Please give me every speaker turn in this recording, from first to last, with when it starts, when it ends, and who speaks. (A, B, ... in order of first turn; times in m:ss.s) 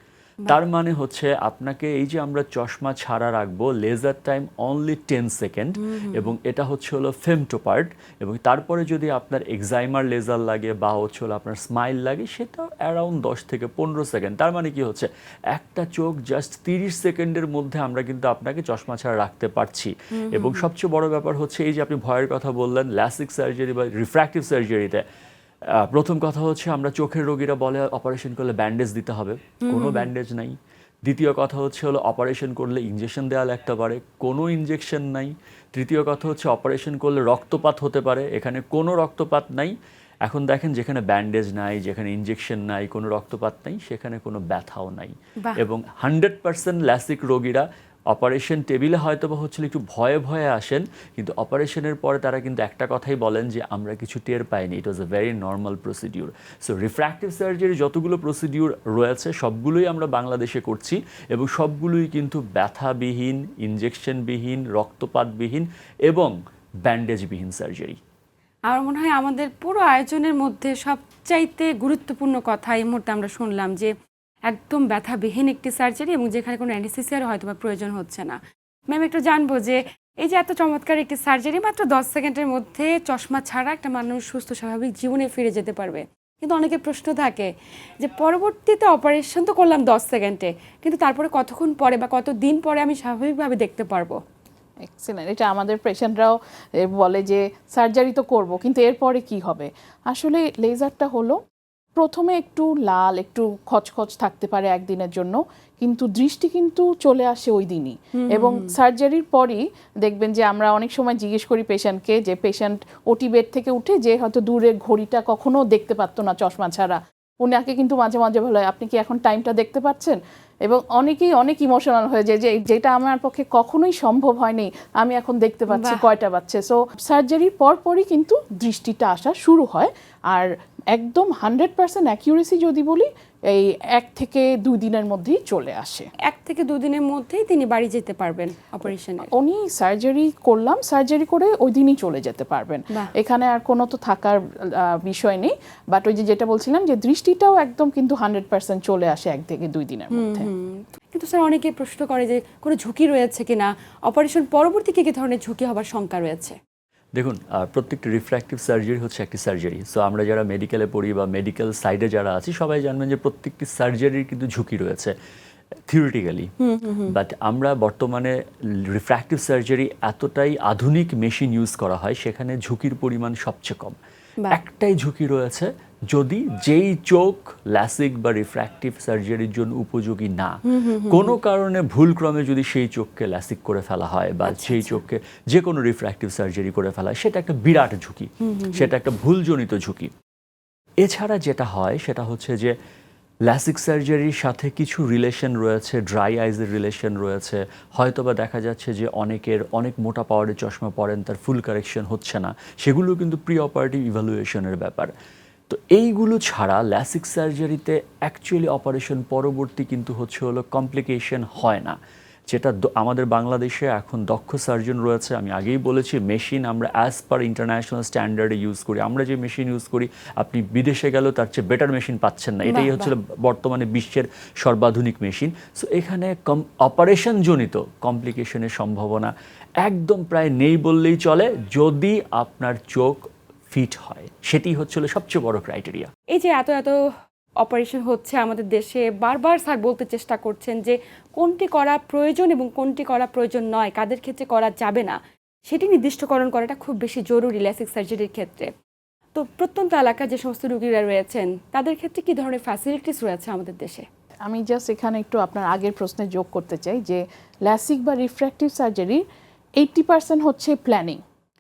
0:00.5-0:25.0 A
0:05.8-0:06.3 B
0:20.2-0:20.6 B
0:25.7-1:08.0 A
0:29.6-0:30.1 B
1:08.7-1:13.9 B
1:14.5-1:18.4 B
1:18.9-1:34.2 B
1:34.8-1:41.4 C
1:42.0-2:16.1 C
1:48.1-1:48.8 B
2:05.7-2:06.0 B
2:16.2-2:19.3 B
2:19.3-2:30.5 C
2:30.1-2:36.6 B
2:37.1-2:45.1 A
2:45.9-2:46.5 A
2:46.6-2:47.1 B
2:47.1-2:54.0 A
2:54.5-3:10.1 A
3:00.6-3:01.4 B
3:04.5-3:05.0 B
3:08.4-3:08.9 B
3:11.0-3:12.8 A
3:13.4-3:25.1 A
3:25.7-3:32.0 A
3:32.5-3:56.1 A
3:42.7-3:43.1 B
3:56.3-3:57.0 B
3:57.6-4:08.7 B
4:09.4-4:14.0 B
4:14.4-4:19.2 C
4:19.8-4:21.2 C